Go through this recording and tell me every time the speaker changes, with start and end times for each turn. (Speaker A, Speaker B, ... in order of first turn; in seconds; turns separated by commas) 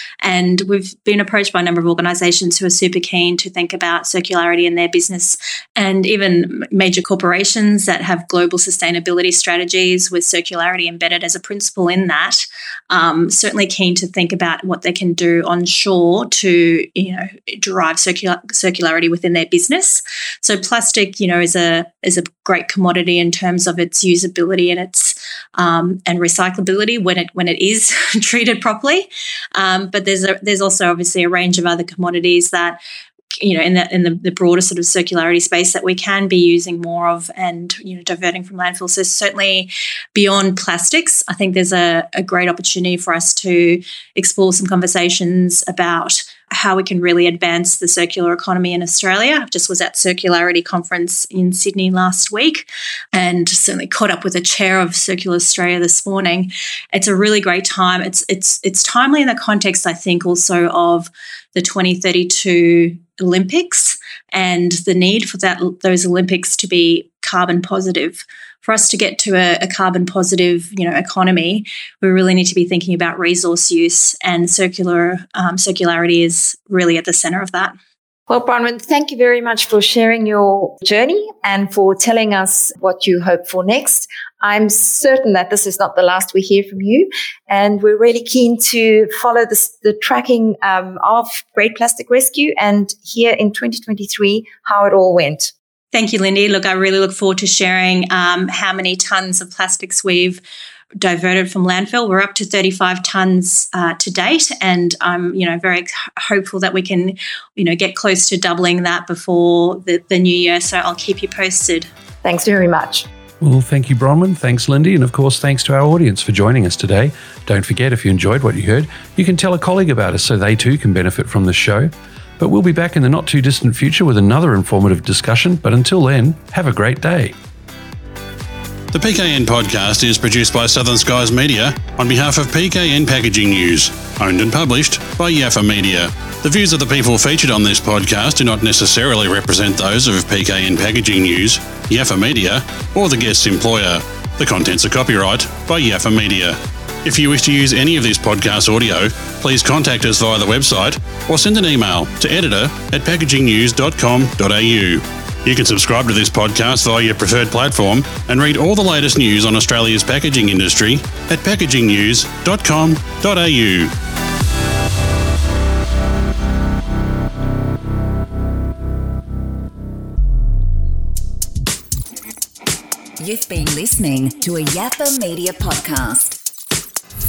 Speaker A: 0.2-32.8, Speaker A: 33.4-77.7, Speaker B: 78.3-95.5, Speaker A: 95.9-100.4, Speaker A: 101.0-111.8, Speaker B: 112.2-113.1, Speaker C: 113.4-127.3, Speaker D: 128.9-163.9, Speaker E: 173.2-176.3